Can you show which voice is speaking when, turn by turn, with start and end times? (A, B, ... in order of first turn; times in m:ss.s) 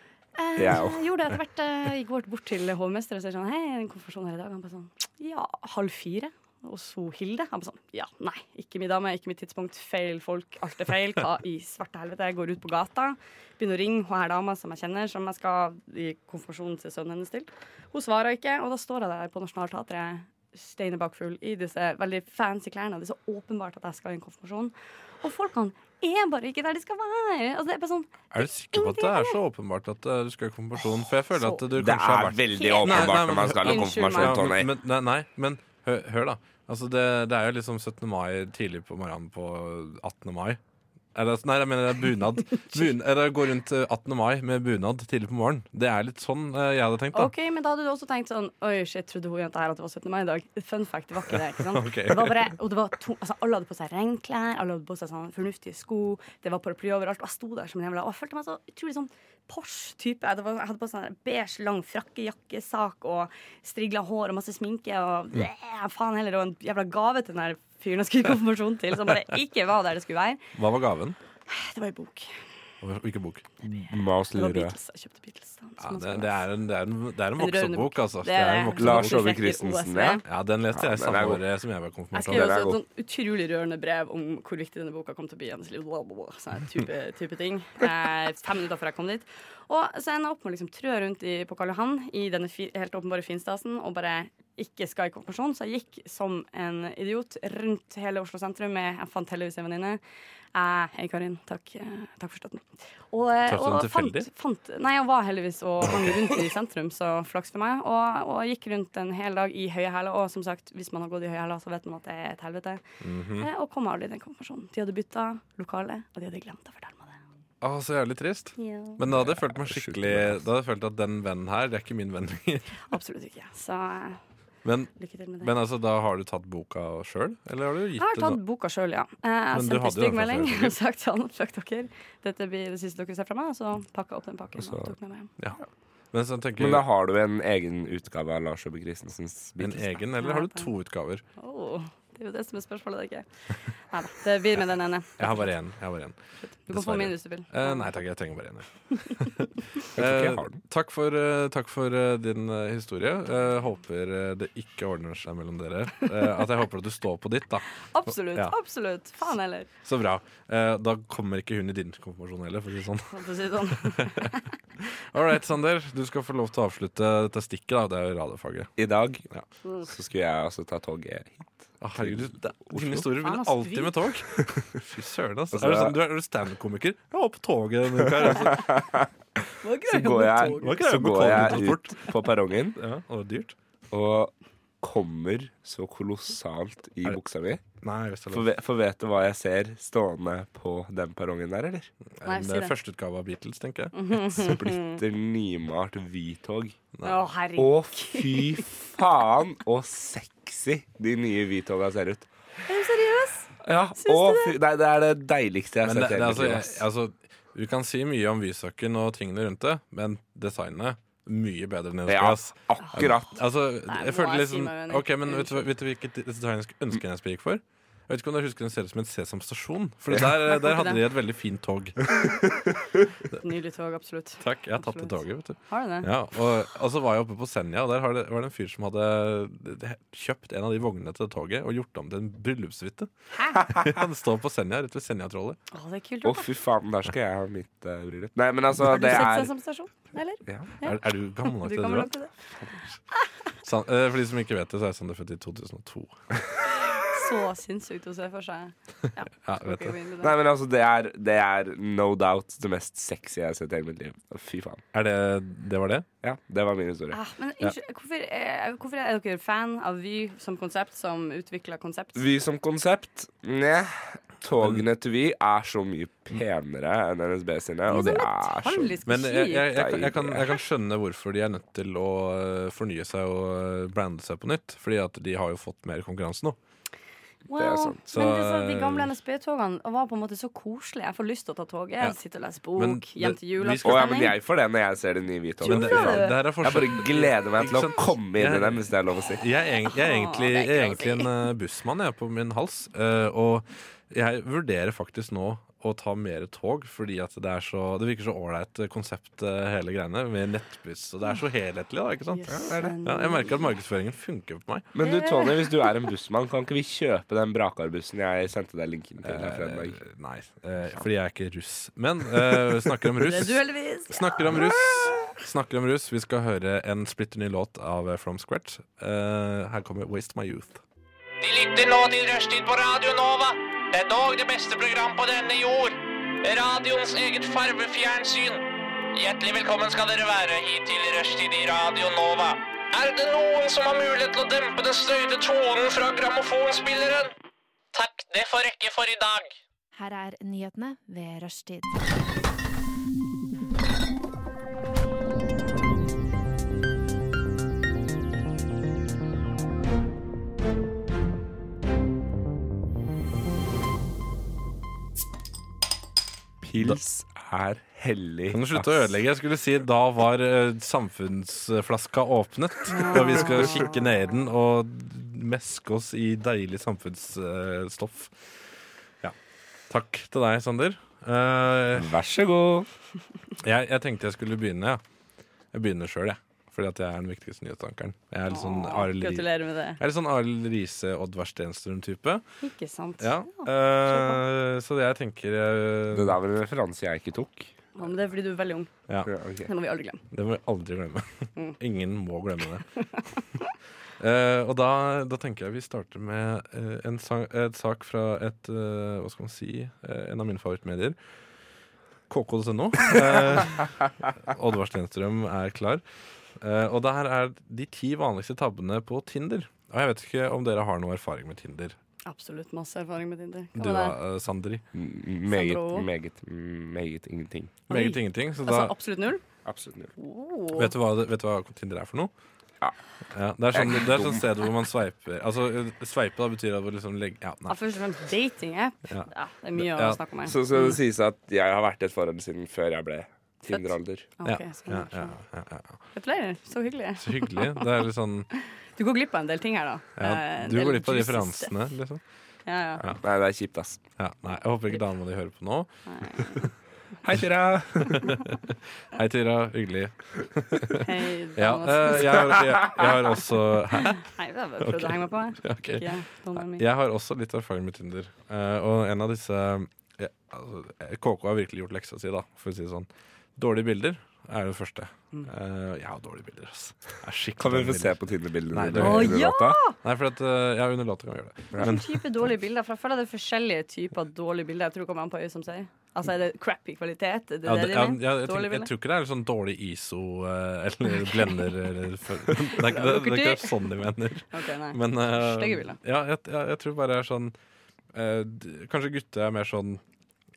0:00.4-0:29.4 A
0:00.6-0:01.0 B
0:28.3-0:40.6 C
0:31.4-0:31.6 A
0:31.7-0:34.7 B
0:32.5-0:34.5 A
0:41.1-0:47.3 C
0:47.1-1:10.4 A
0:51.3-0:52.5 C
1:10.5-1:11.2 C
1:11.5-1:12.3 A
1:12.8-1:13.4 C
1:13.6-1:14.8 B
1:14.3-1:16.4 A
1:15.8-1:19.3 C
1:17.4-1:20.2 A
1:18.8-1:21.4 B
1:20.2-1:22.6 C
1:22.1-1:40.0 A
1:22.2-1:22.8 B
1:40.5-1:52.8 A
1:43.4-1:44.3 C
1:53.0-1:53.5 C
1:53.4-1:57.2 A
1:57.6-2:02.8 C
1:58.6-1:59.0 A
1:59.0-2:00.4 B
2:02.9-2:04.2 A
2:04.6-2:08.4 C
2:05.0-2:05.5 A
2:08.0-2:15.3 A
2:09.5-2:10.8 C
2:14.6-2:14.9 B
2:16.1-2:16.8 C
2:16.6-2:19.9 B
2:19.6-2:21.2 C
2:20.2-2:20.7 A
2:21.4-2:23.3 A
2:23.9-2:25.5 A
2:25.2-2:26.2 C
2:26.4-2:27.9 A
2:26.7-2:38.5 C
2:29.9-2:30.6 B
2:37.9-2:39.7 A
2:39.8-2:48.7 C
2:43.1-2:44.5 A
2:48.8-2:49.2 B
2:49.8-2:53.1 B
2:51.8-2:58.8 C
2:53.2-2:54.0 A
2:55.5-2:55.9 B
2:58.0-2:59.1 B
2:59.6-3:00.8 A
2:59.9-3:02.8 B
3:00.5-3:02.1 C
3:02.8-3:03.6 C
3:03.9-3:07.6 B
3:07.8-3:08.5 C
3:08.3-3:11.9 B
3:12.2-3:14.6 C
3:12.2-3:12.7 A
3:13.9-3:15.0 A
3:14.4-3:16.8 B
3:16.9-3:17.2 C
3:17.0-3:18.6 A
3:17.6-3:22.3 B
3:22.7-3:24.6 A
3:23.6-3:26.8 B
3:25.8-3:42.1 C
3:32.1-3:33.4 B
3:33.9-3:35.6 A
3:40.4-3:41.0 A
3:43.3-3:46.1 A
3:44.4-3:55.6 C
3:55.7-3:56.5 A
3:56.2-3:59.5 B
3:58.8-4:02.3 A
4:00.8-4:02.1 C
4:03.6-4:06.2 C
4:07.1-4:10.3 A
4:09.4-4:09.9 C
4:10.2-4:14.8 B
4:14.9-4:16.1 C
4:16.2-4:17.2 B
4:17.1-4:22.2 A
4:22.2-4:29.0 B
4:27.9-4:29.7 A
4:29.0-4:36.6 C
4:29.6-4:30.4 B
4:37.5-4:44.3 A
4:37.5-4:38.0 B
4:38.1-4:39.1 C
4:42.8-4:44.2 C
4:43.8-4:49.4 B
4:45.6-4:46.4 A
4:45.6-5:04.9 C
4:49.9-4:51.3 A
5:02.3-5:03.7 A
5:02.5-5:02.9 B
5:04.9-5:10.0 B
5:05.0-5:05.9 A
5:09.2-5:20.8 C
5:13.2-5:14.7 A
5:21.4-5:37.3 D
5:37.9-5:39.5 D
5:39.9-5:42.0 E
5:56.6-5:59.0 B
5:58.5-6:08.4 C
6:02.9-6:03.9 A
6:09.9-6:12.1 C
6:11.9-6:12.9 B
6:13.6-6:15.0 C
6:15.7-6:22.4 C
6:18.5-6:20.0 A
6:22.6-6:24.4 A
6:23.2-6:26.4 C
6:26.1-6:27.7 B
6:28.0-6:28.9 A
6:29.2-6:29.7 B
6:29.6-6:30.2 A
6:30.3-6:32.8 C
6:34.2-6:41.2 C
6:42.3-6:46.0 C
6:46.6-6:52.0 C
6:52.2-6:54.2 A
6:53.7-6:54.8 C
6:54.9-6:57.8 B
6:55.5-6:56.1 A
6:57.9-6:58.9 C
6:57.9-6:59.4 A
6:59.6-7:00.1 B
7:00.2-7:00.9 A
7:00.7-7:02.3 C
7:03.3-7:07.8 C
7:03.7-7:04.4 B
7:07.7-7:10.6 A
7:09.1-7:10.2 C
7:10.4-7:14.3 B
7:13.7-7:15.4 A
7:14.4-7:16.0 C
7:16.1-7:17.9 A
7:17.2-7:18.5 C
7:18.5-7:21.8 A
7:20.2-7:22.2 C
7:22.6-7:23.0 A
7:23.2-7:24.0 B
7:24.2-7:26.6 C
7:26.1-7:26.7 A
7:27.2-7:28.3 B
7:28.0-7:34.2 C
7:31.0-7:32.6 A
7:33.9-7:36.8 A
7:34.8-7:49.4 C
7:47.6-7:49.8 B
7:48.9-7:50.0 A
7:50.0-7:52.2 C
7:51.8-7:58.9 A
7:57.6-8:07.5 C
8:02.7-8:03.9 A
8:04.5-8:06.0 A
8:08.1-8:10.0 C